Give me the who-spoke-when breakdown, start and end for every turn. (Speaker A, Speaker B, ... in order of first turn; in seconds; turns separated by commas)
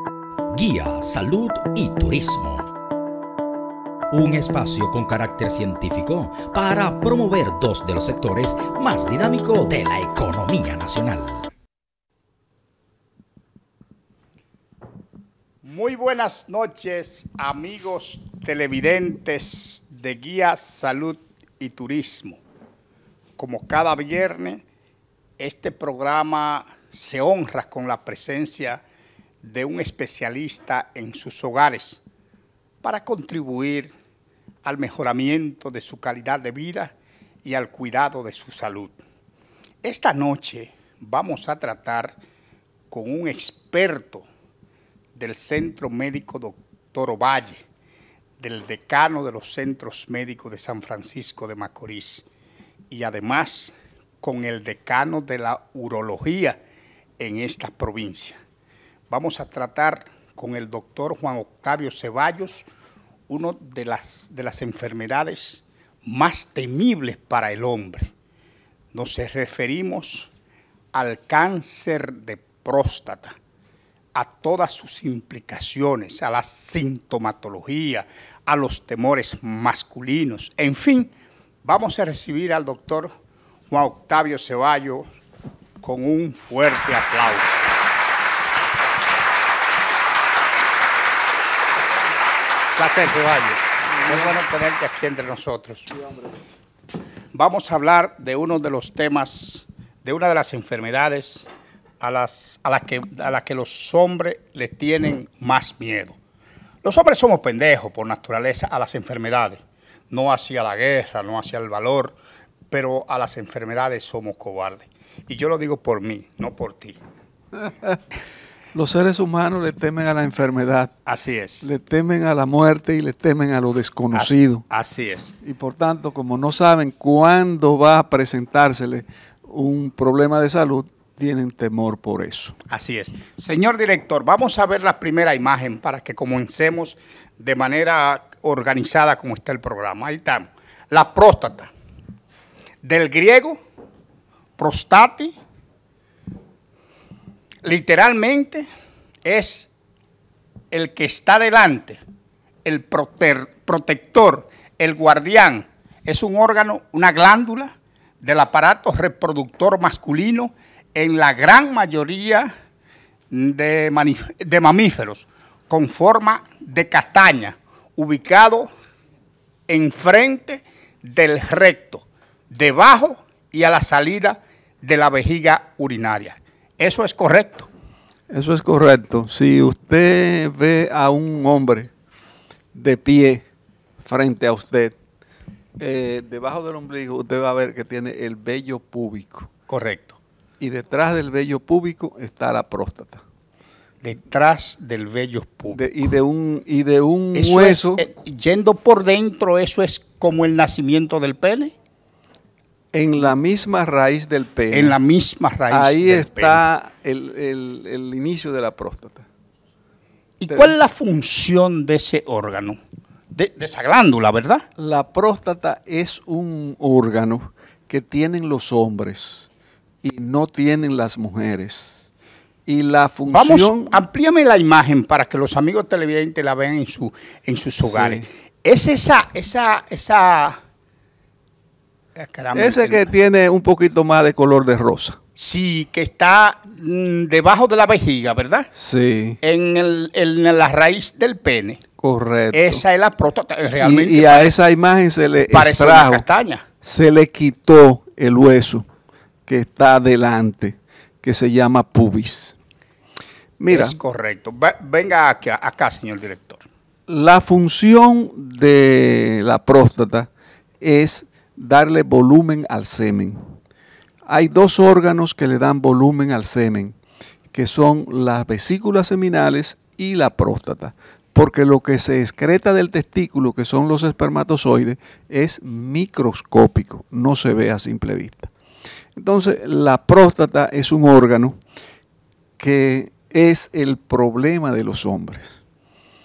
Speaker A: 0.5-2.7, Speaker A: 4.1-11.5, Speaker B: 15.6-22.4, Speaker B: 23.4-24.6, Speaker B: 25.4-28.8, Speaker B: 29.4-32.0, Speaker B: 32.8-33.9, Speaker B: 34.6-39.0, Speaker B: 39.8-42.2, Speaker B: 42.9-44.3, Speaker B: 45.2-47.6, Speaker B: 48.4-52.3, Speaker B: 52.9-56.6, Speaker B: 57.2-58.4, Speaker B: 59.1-62.7, Speaker B: 63.3-68.1, Speaker B: 68.9-70.3, Speaker B: 70.9-73.4, Speaker B: 74.1-81.1, Speaker B: 81.6-83.1, Speaker B: 83.7-85.0, Speaker B: 85.8-87.7, Speaker B: 92.8-95.9, Speaker B: 97.3-101.5, Speaker B: 102.0-106.2, Speaker B: 106.8-112.2, Speaker B: 112.7-117.0, Speaker C: 117.6-118.0, Speaker C: 118.7-121.0, Speaker B: 121.1-121.7, Speaker C: 121.6-124.6, Speaker B: 124.1-125.3, Speaker C: 125.4-132.6, Speaker B: 132.7-141.7, Speaker B: 142.8-143.6, Speaker B: 144.6-145.3, Speaker B: 147.6-148.7, Speaker B: 149.2-149.7, Speaker B: 150.7-152.0, Speaker B: 152.7-162.5, Speaker B: 163.3-168.7, Speaker B: 169.7-177.7, Speaker C: 178.3-181.9, Speaker C: 182.7-183.4, Speaker C: 184.0-185.0, Speaker C: 185.8-189.5, Speaker B: 189.7-190.2, Speaker C: 190.6-193.2, Speaker B: 194.0-195.9, Speaker C: 195.7-198.0, Speaker B: 197.3-201.7, Speaker C: 202.9-205.0, Speaker B: 204.7-206.6, Speaker C: 205.7-209.3, Speaker B: 210.4-212.8, Speaker C: 210.5-210.8, Speaker B: 213.3-214.7, Speaker C: 214.8-219.5, Speaker C: 220.0-222.1, Speaker C: 222.7-224.0, Speaker B: 223.3-230.6, Speaker C: 227.8-228.2, Speaker B: 232.2-233.1, Speaker C: 232.5-235.2, Speaker B: 235.4-238.7, Speaker C: 238.7-239.4, Speaker B: 239.4-241.8, Speaker C: 242.0-242.8, Speaker B: 242.5-244.6, Speaker C: 243.8-246.2, Speaker B: 245.5-246.7, Speaker C: 246.8-248.9, Speaker C: 249.5-252.6, Speaker C: 253.6-254.0, Speaker B: 253.7-256.6, Speaker C: 257.1-260.3, Speaker C: 260.8-263.4, Speaker C: 264.3-267.0, Speaker C: 267.5-278.5, Speaker C: 279.2-281.6, Speaker C: 282.6-285.6